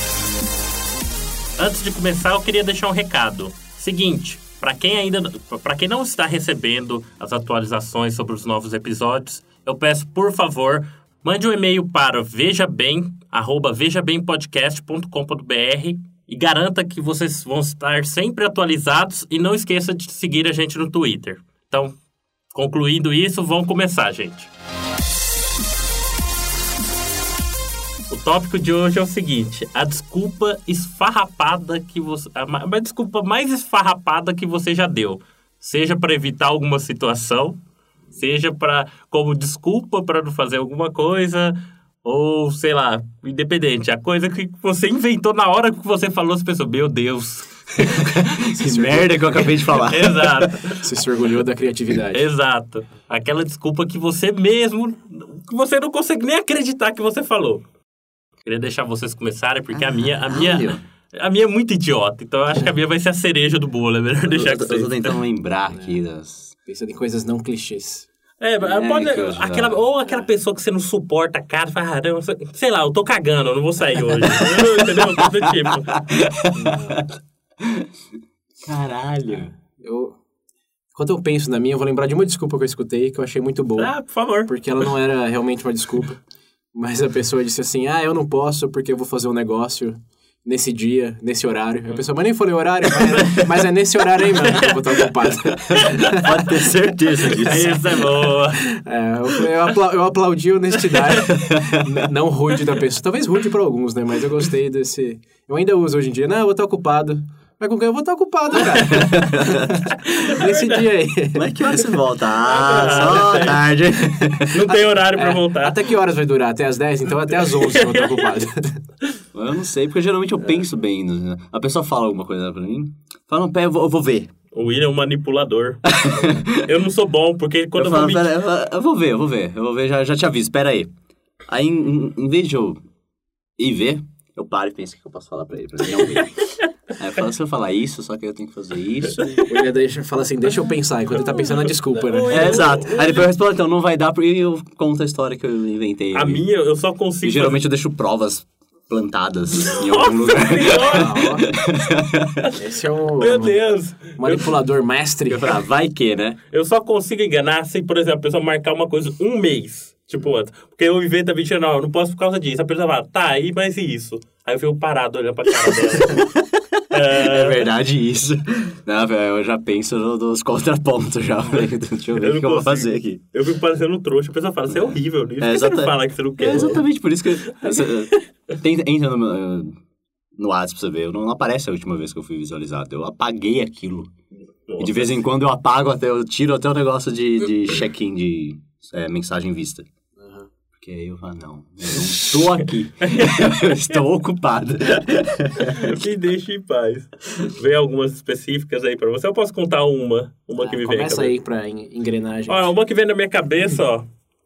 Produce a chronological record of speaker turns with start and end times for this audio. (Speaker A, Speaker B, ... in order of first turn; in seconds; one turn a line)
Speaker A: 1.6-21.9
Speaker A: 22.5-24.5
Speaker A: 28.1-37.6
Speaker A: 38.1-48.0
Speaker B: 48.0-50.6
Speaker C: 48.5-49.5
Speaker A: 49.7-50.8
Speaker C: 50.8-52.3
Speaker A: 52.1-57.6
Speaker A: 58.5-65.2
Speaker B: 59.7-60.8
Speaker B: 64.3-66.5
Speaker C: 65.7-66.0
Speaker C: 66.7-68.1
Speaker A: 68.4-75.9
Speaker B: 68.6-69.9
Speaker B: 74.2-75.2
Speaker B: 75.9-77.0
Speaker C: 76.5-77.1
Speaker B: 78.7-79.5
Speaker C: 79.8-80.2
Speaker C: 80.9-86.2
Speaker A: 83.8-84.5
Speaker C: 86.7-96.4
Speaker A: 94.5-95.0
Speaker B: 95.8-97.9
Speaker A: 97.3-98.7
Speaker C: 98.7-111.8
Speaker A: 101.0-101.3
Speaker B: 101.3-101.8
Speaker B: 109.0-109.4
Speaker A: 110.2-110.8
Speaker B: 111.3-114.6
Speaker A: 112.4-113.6
Speaker C: 112.7-113.5
Speaker A: 114.5-115.8
Speaker C: 114.7-118.8
Speaker A: 117.4-118.3
Speaker B: 119.3-124.3
Speaker A: 124.5-128.3
Speaker B: 126.0-126.6
Speaker B: 127.8-130.9
Speaker B: 131.5-132.8
Speaker B: 133.6-136.4
Speaker A: 135.9-136.5
Speaker B: 137.0-139.2
Speaker A: 139.2-139.5
Speaker C: 139.4-142.7
Speaker A: 141.2-143.3
Speaker B: 142.3-146.5
Speaker A: 146.1-147.6
Speaker B: 147.2-152.5
Speaker A: 149.7-151.3
Speaker C: 150.9-151.5
Speaker C: 152.6-153.6
Speaker A: 153.2-154.5
Speaker C: 154.2-155.5
Speaker B: 155.3-156.4
Speaker A: 156.5-166.3
Speaker B: 166.1-166.4
Speaker A: 166.9-167.7
Speaker B: 167.1-173.2
Speaker A: 172.2-176.8
Speaker B: 174.7-179.8
Speaker A: 177.5-178.2
Speaker B: 180.4-184.1
Speaker A: 184.7-185.2
Speaker B: 184.8-189.9
Speaker C: 190.2-190.5
Speaker B: 190.8-195.8
Speaker A: 193.1-193.5
Speaker A: 195.7-201.4
Speaker C: 200.6-202.7
Speaker A: 202.5-204.1